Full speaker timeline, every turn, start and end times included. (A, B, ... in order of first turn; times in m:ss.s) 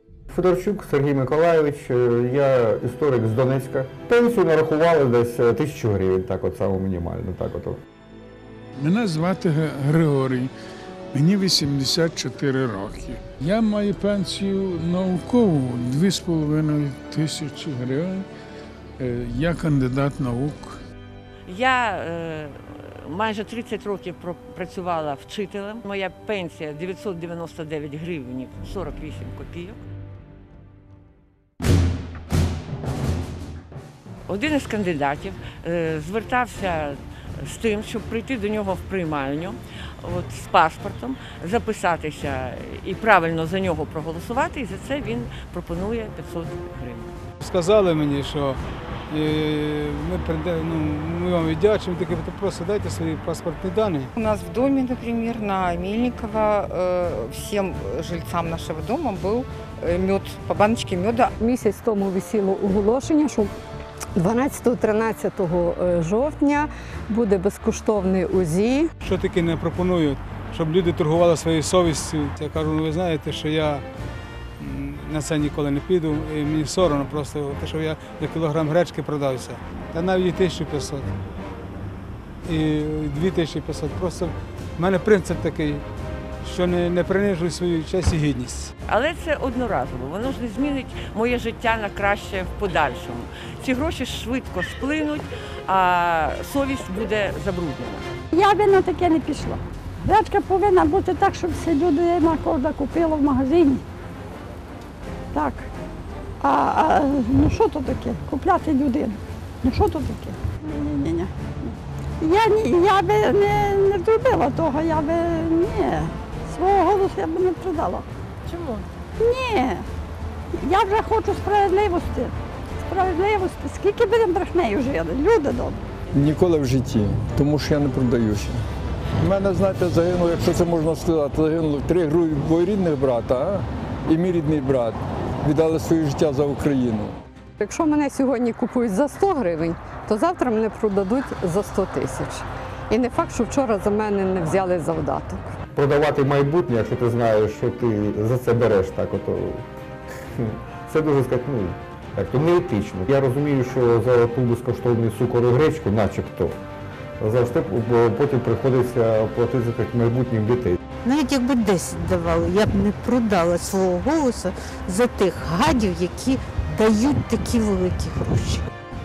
0:00.3-0:07.8 A
0:08.8-0:10.5 B
0:11.1-0:18.2 B
0:19.0-0:20.8 B
0:21.5-0:29.8 C
0:34.3-0:47.1 C
0:47.4-0:54.1 D
0:54.2-1:01.3 E
1:01.4-1:03.5 F
1:04.2-1:08.9 F
1:09.0-1:13.8 D
1:14.6-1:21.1 D
1:22.4-1:25.8 D
1:26.4-1:28.7 D
1:28.9-1:38.1 C
1:38.3-1:43.8 G
1:45.3-1:45.7 G
1:46.4-1:58.0 G
1:59.2-1:59.9 G
2:00.6-2:02.3 G
2:02.8-2:05.8 G
2:06.1-2:08.6 H
2:09.2-2:17.1 H
2:17.6-2:25.6 F
2:25.8-2:29.6 A
2:30.4-2:36.6 A
2:37.2-2:40.8 A
2:41.0-2:48.6 I